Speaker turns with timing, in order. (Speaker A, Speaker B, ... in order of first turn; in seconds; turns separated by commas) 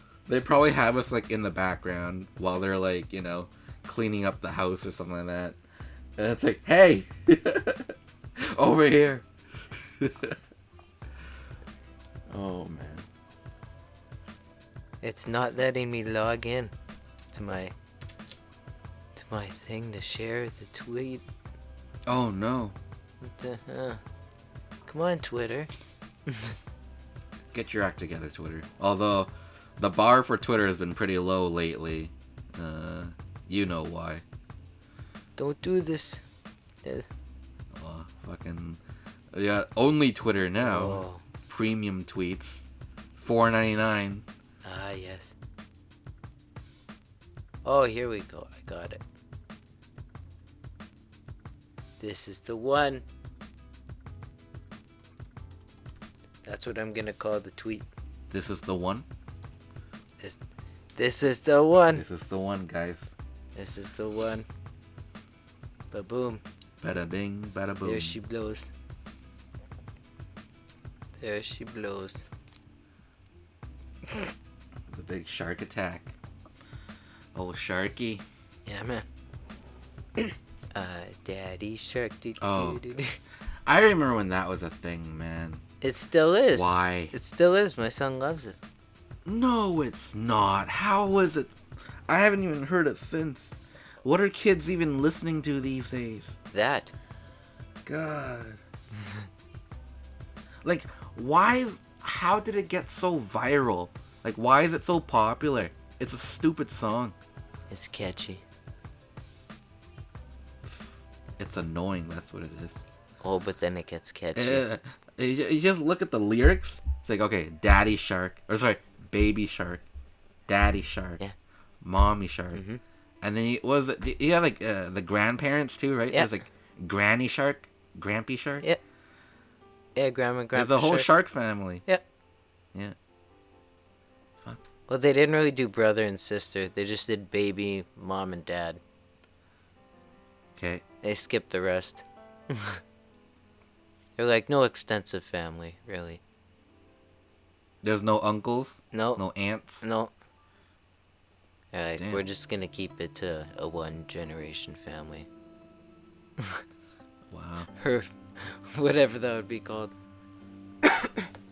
Speaker A: 0.3-5.6, Speaker A: 6.2-9.3, Speaker A: 10.0-10.4, Speaker A: 12.3-13.1, Speaker B: 15.0-16.7, Speaker B: 17.3-17.7, Speaker B: 19.2-21.2, Speaker A: 22.1-22.8, Speaker B: 23.2-24.0, Speaker B: 24.9-25.7, Speaker B: 26.3-26.6, Speaker A: 27.5-34.2, Speaker B: 35.4-36.2, Speaker A: 37.7-38.8, Speaker A: 39.3-42.6, Speaker B: 40.6-41.2, Speaker A: 43.2-44.3, Speaker B: 44.6-45.3, Speaker B: 47.6-49.0, Speaker B: 52.0-53.0, Speaker B: 56.5-57.9, Speaker A: 58.3-59.1, Speaker B: 61.0-62.0, Speaker A: 61.9-63.1, Speaker B: 63.6-64.5, Speaker B: 65.9-66.4, Speaker A: 66.8-68.2, Speaker B: 67.8-68.7, Speaker B: 71.2-72.2, Speaker A: 74.9-76.1, Speaker A: 77.3-78.2, Speaker B: 78.7-79.0, Speaker B: 80.2-83.2, Speaker A: 82.4-82.8, Speaker A: 83.7-85.6, Speaker B: 85.8-88.6, Speaker A: 86.5-87.1, Speaker A: 89.3-96.4, Speaker B: 96.5-96.9, Speaker A: 97.8-98.6, Speaker A: 100.6-107.2, Speaker B: 107.7-108.4, Speaker A: 110.7-112.8, Speaker B: 113.2-114.7, Speaker A: 114.3-119.8, Speaker A: 120.5-121.2, Speaker A: 121.8-122.6, Speaker B: 122.5-122.8, Speaker A: 123.2-128.7, Speaker B: 130.0-131.1, Speaker A: 130.5-131.8, Speaker B: 134.9-138.8, Speaker A: 140.6-140.8, Speaker B: 141.0-142.8, Speaker B: 144.2-146.2, Speaker A: 147.8-149.8, Speaker B: 148.9-149.2, Speaker B: 149.8-150.1, Speaker B: 151.7-155.3, Speaker A: 152.0-152.2, Speaker A: 157.3-157.7, Speaker B: 157.8-159.9